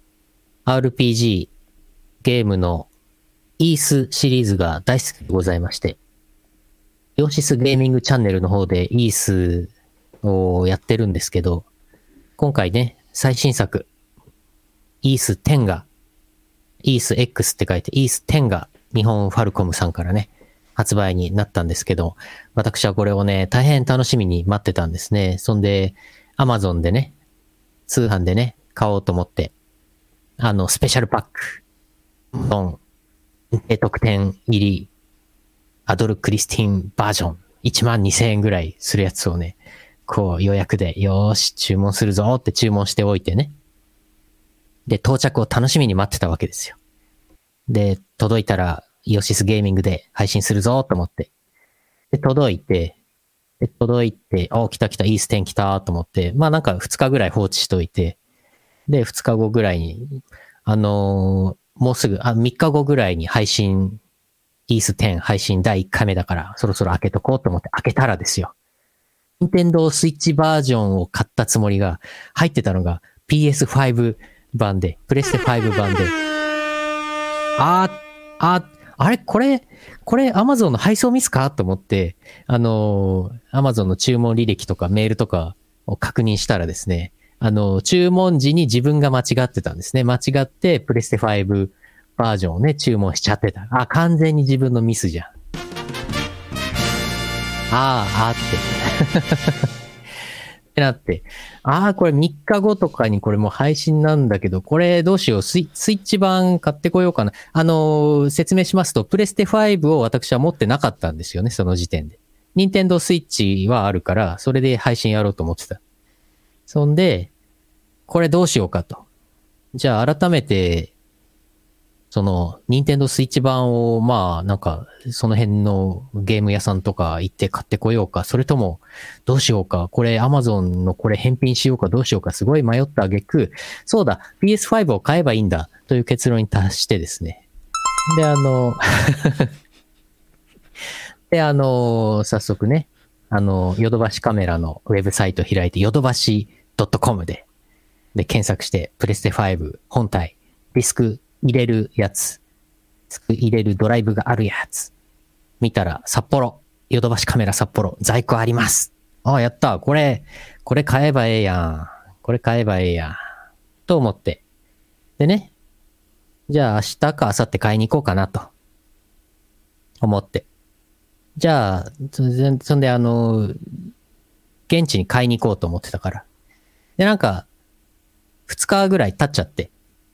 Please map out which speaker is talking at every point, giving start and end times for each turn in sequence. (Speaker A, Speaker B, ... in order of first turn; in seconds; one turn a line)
Speaker A: 0.7-1.5
Speaker A: 2.2-2.9
Speaker A: 3.6-6.0
Speaker A: 7.2-9.7
Speaker A: 10.2-11.6
Speaker A: 12.4-13.9
Speaker A: 15.0-15.8
Speaker A: 16.8-27.1
Speaker A: 27.9-29.5
Speaker A: 30.4-31.6
Speaker A: 32.3-32.8
Speaker A: 33.5-34.9
Speaker A: 35.9-43.5
Speaker A: 44.9-46.8
Speaker A: 47.7-51.3
Speaker A: 52.1-52.9
Speaker A: 53.6-58.2
Speaker A: 58.9-64.0
Speaker A: 64.7-68.5
Speaker A: 69.4-76.1
Speaker A: 77.6-95.3
Speaker A: 97.7-99.7
Speaker A: 100.7-115.8
Speaker A: 116.7-117.3
Speaker A: 118.1-119.0
Speaker A: 119.7-120.9
Speaker A: 122.1-137.4
Speaker A: 138.1-139.5
Speaker A: 141.3-147.4
Speaker A: 148.1-152.4
Speaker A: 153.1-154.9
Speaker A: 155.6-163.2
Speaker A: 163.9-164.4
Speaker A: 165.2-165.5
Speaker A: 166.5-168.5
Speaker A: 170.0-170.4
Speaker A: 171.3-173.6
Speaker A: 174.7-176.2
Speaker A: 177.0-177.4
Speaker A: 178.5-179.7